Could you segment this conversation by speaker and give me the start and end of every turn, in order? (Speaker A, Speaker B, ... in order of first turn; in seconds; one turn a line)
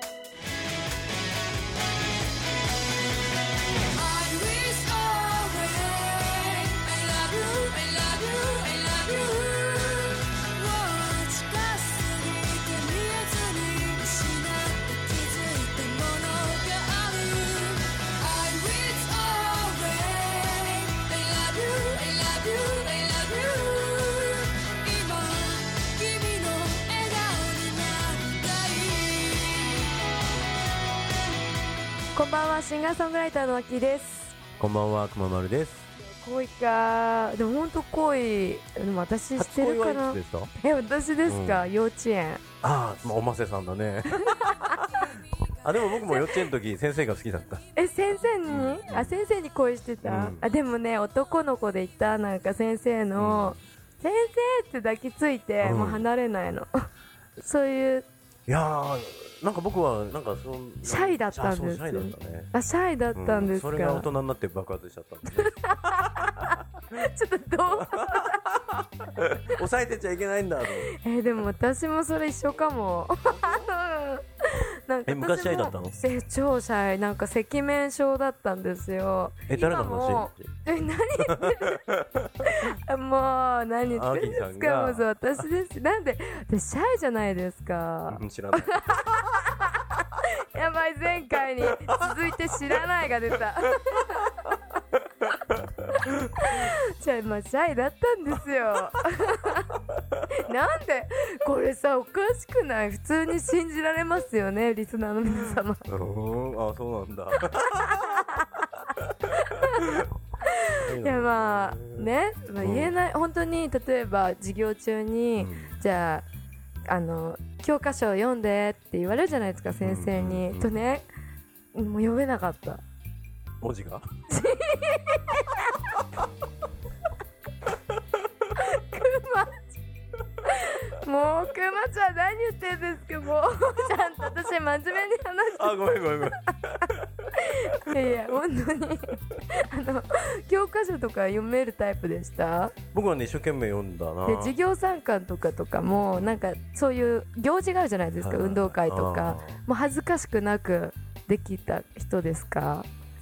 Speaker A: 3.9-29.9
Speaker B: 32.1-34.4
Speaker C: 34.6-35.9
Speaker B: 36.2-42.4
Speaker C: 39.4-40.5
Speaker C: 41.3-41.6
Speaker C: 42.6-45.1
Speaker B: 44.1-44.8
Speaker C: 45.6-47.6
Speaker B: 45.9-46.4
Speaker B: 47.8-56.7
Speaker C: 48.5-49.2
Speaker C: 50.0-50.4
Speaker C: 53.2-53.6
Speaker C: 55.6-56.1
Speaker B: 57.4-58.1
Speaker C: 58.5-62.5
Speaker B: 60.8-64.1
Speaker C: 63.1-66.5
Speaker B: 65.3-68.5
Speaker C: 67.7-70.9
Speaker B: 70.8-81.8
Speaker C: 75.1-76.0
Speaker C: 79.5-80.5
Speaker C: 81.2-82.3
Speaker B: 82.4-94.5
Speaker C: 83.9-85.1
Speaker C: 88.1-88.8
Speaker B: 96.0-99.8
Speaker B: 100.3-105.8
Speaker C: 105.9-110.1
Speaker B: 107.8-108.6
Speaker B: 109.4-116.3
Speaker C: 110.7-112.1
Speaker C: 112.6-113.0
Speaker C: 115.4-115.8
Speaker B: 116.9-121.0
Speaker C: 119.8-120.8
Speaker B: 121.7-122.8
Speaker C: 123.6-124.0
Speaker B: 124.3-125.8
Speaker B: 128.5-129.8
Speaker B: 130.4-136.4
Speaker C: 135.6-137.1
Speaker B: 137.3-142.8
Speaker C: 142.9-144.6
Speaker B: 144.2-152.9
Speaker C: 148.2-149.6